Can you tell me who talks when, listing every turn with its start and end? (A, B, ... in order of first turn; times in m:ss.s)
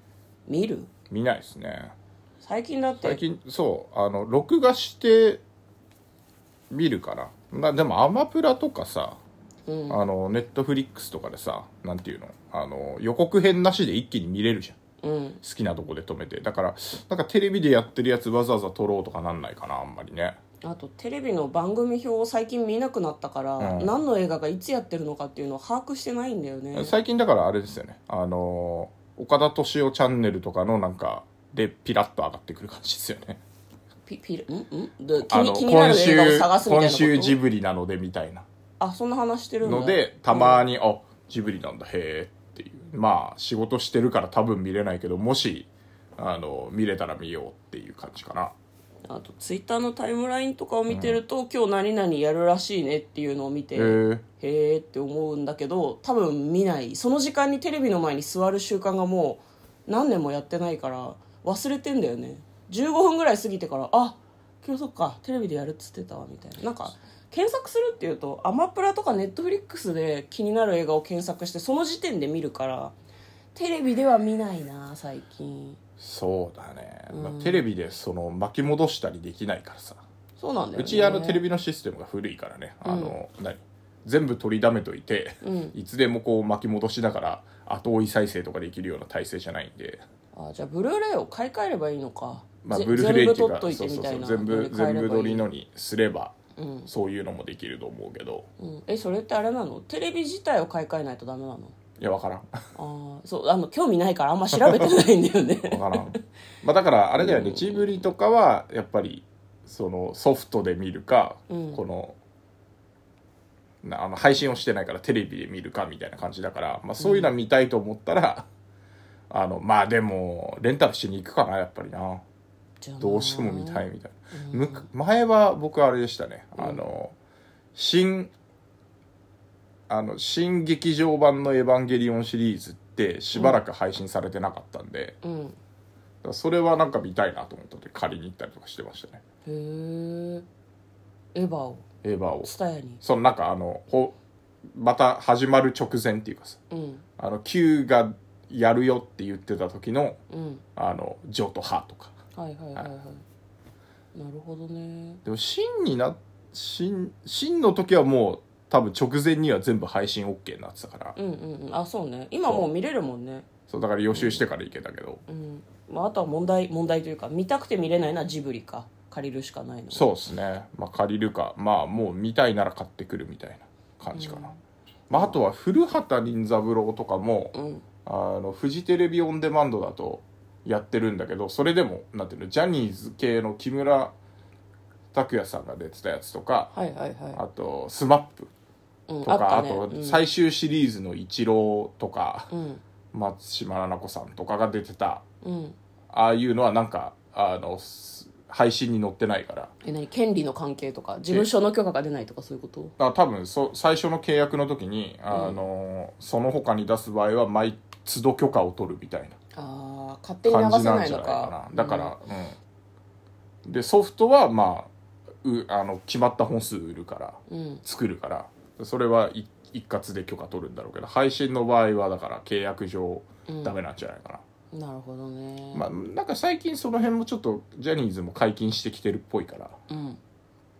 0:00.4-0:00.9 A
0:01.1-0:01.9 B
0:02.4-0:03.2 A
0:03.0-0:05.4 B
0:06.7-0:09.2 B
0:09.7-0:10.0 A
0:09.9-0:14.8 B
0:15.0-0:15.4 A
0:15.4-0:20.4 B
0:20.6-0:26.9 A
0:23.6-0:23.9 B
0:26.7-0:33.4 B
0:34.1-0:37.4 A
0:35.3-0:38.4 B
0:38.8-0:40.6 A
0:39.6-0:48.5 B
0:49.1-1:12.9 A
0:50.9-0:51.2 B
0:53.7-0:54.2 B
1:13.5-1:15.8 A
1:16.0-1:20.0 B
1:17.1-1:17.6 A
1:20.4-1:21.4 A
1:20.8-1:30.0 B
1:22.8-1:23.2 A
1:25.4-1:25.8 A
1:30.3-1:35.4 A
1:32.6-1:36.4 B
1:36.6-1:36.9 A
1:36.9-1:38.5 B
1:38.6-1:41.7 A
1:42.0-1:42.6 B
1:42.8-1:46.1 A
1:45.7-1:52.2 B
1:47.2-1:48.0 A
1:51.5-1:51.8 A
1:53.8-1:58.5 B
1:57.0-1:57.3 A
1:59.3-2:02.2 B
2:02.8-2:04.9 A
2:03.0-2:07.1 B
2:07.7-2:08.3 B
2:09.9-2:15.2 B
2:13.3-2:13.6 A
2:15.2-2:15.6 A
2:16.2-2:19.2 B
2:19.4-2:20.4 A
2:21.3-2:21.8 A
2:22.0-2:22.5 B
2:22.4-2:23.0 A
2:23.0-2:24.2 B
2:24.7-2:26.6 B
2:26.7-2:27.0 A
2:27.2-2:30.2 B
2:30.3-2:30.6 A
2:30.8-2:32.2 B
2:32.3-2:33.2 A
2:34.1-2:35.2 A
2:35.2-2:41.2 B
2:41.2-2:43.4 A
2:43.7-2:45.2 B
2:44.1-2:44.4 A
2:45.3-2:50.1 A
2:49.9-2:54.5 B
2:54.1-2:54.6 A
2:55.1-2:57.5 B
2:55.1-2:55.4 A
2:57.5-2:57.8 A
2:58.0-3:04.1 B
3:05.1-3:06.7 B
3:06.7-3:07.4 A
3:07.3-3:08.5 B
3:09.1-3:10.2 A
3:09.2-3:12.5 B
3:12.5-3:12.8 A
3:13.1-3:15.2 B
3:15.4-3:15.8 A
3:16.1-3:19.7 B
3:19.8-3:22.9 A
3:23.0-3:29.4 B
3:25.3-3:25.6 A
3:29.5-3:32.2 A
3:30.4-3:32.6 B
3:33.6-3:34.9 B
3:35.4-3:44.4 B
3:37.5-3:37.8 A
3:43.5-3:43.8 A
3:44.7-3:45.9 A
3:45.7-3:49.7 B
3:49.9-3:50.2 A